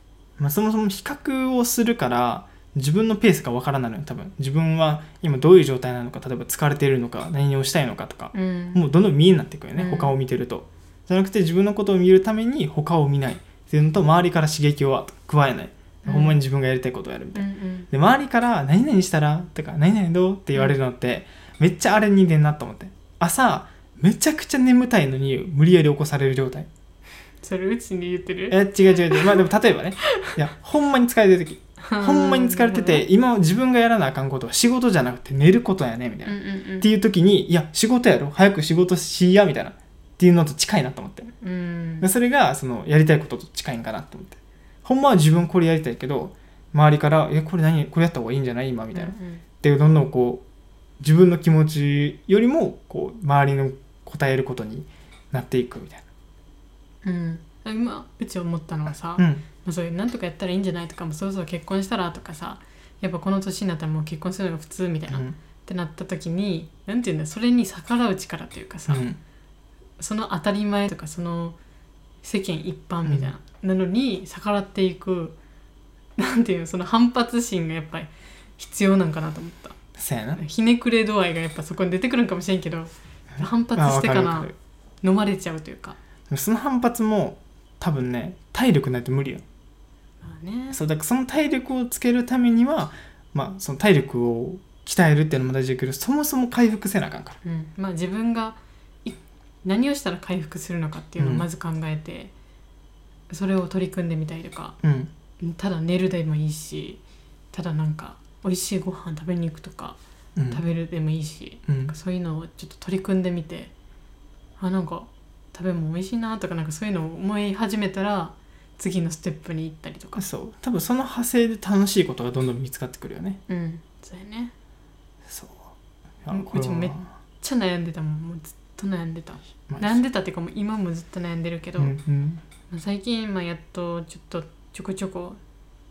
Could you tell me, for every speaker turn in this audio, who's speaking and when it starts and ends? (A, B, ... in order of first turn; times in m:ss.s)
0:00.4-0:26.7 A
0:08.3-0:08.8 B
0:09.8-0:10.1 B
0:16.0-0:16.4 B
0:17.3-0:17.9 B
0:27.4-0:29.4 B
0:28.5-0:41.3 A
0:31.8-0:33.0 B
0:36.2-0:36.9 B
0:41.3-0:42.1 B
0:42.0-0:50.4 A
0:48.9-0:49.4 B
0:51.0-0:56.1 A
0:57.0-1:09.0 B
0:59.2-0:59.4 A
1:05.1-1:05.4 A
1:08.9-1:09.2 A
1:10.0-1:11.6 B
1:12.2-1:15.4 B
1:13.0-1:13.3 A
1:16.2-1:19.8 B
1:20.0-1:20.4 A
1:20.4-1:24.5 B
1:23.4-1:24.5 A
1:25.0-1:26.0 B
1:26.3-1:29.4 A
1:30.2-1:30.8 B
1:30.7-1:37.4 A
1:37.4-1:42.3 B
1:41.2-1:41.4 A
1:43.3-1:44.8 B
1:44.8-1:45.1 A
1:45.4-1:47.0 B
1:47.5-1:50.0 B
1:50.4-1:50.6 A
1:50.5-1:53.7 B
1:51.7-1:51.9 A
1:54.6-2:00.2 B
2:00.2-2:03.4 A
2:03.5-2:04.5 B
2:05.3-2:05.7 A
2:06.2-2:07.1 A
2:06.3-2:11.9 B
2:09.7-2:10.0 A
2:11.8-2:12.4 A
2:12.7-2:15.4 B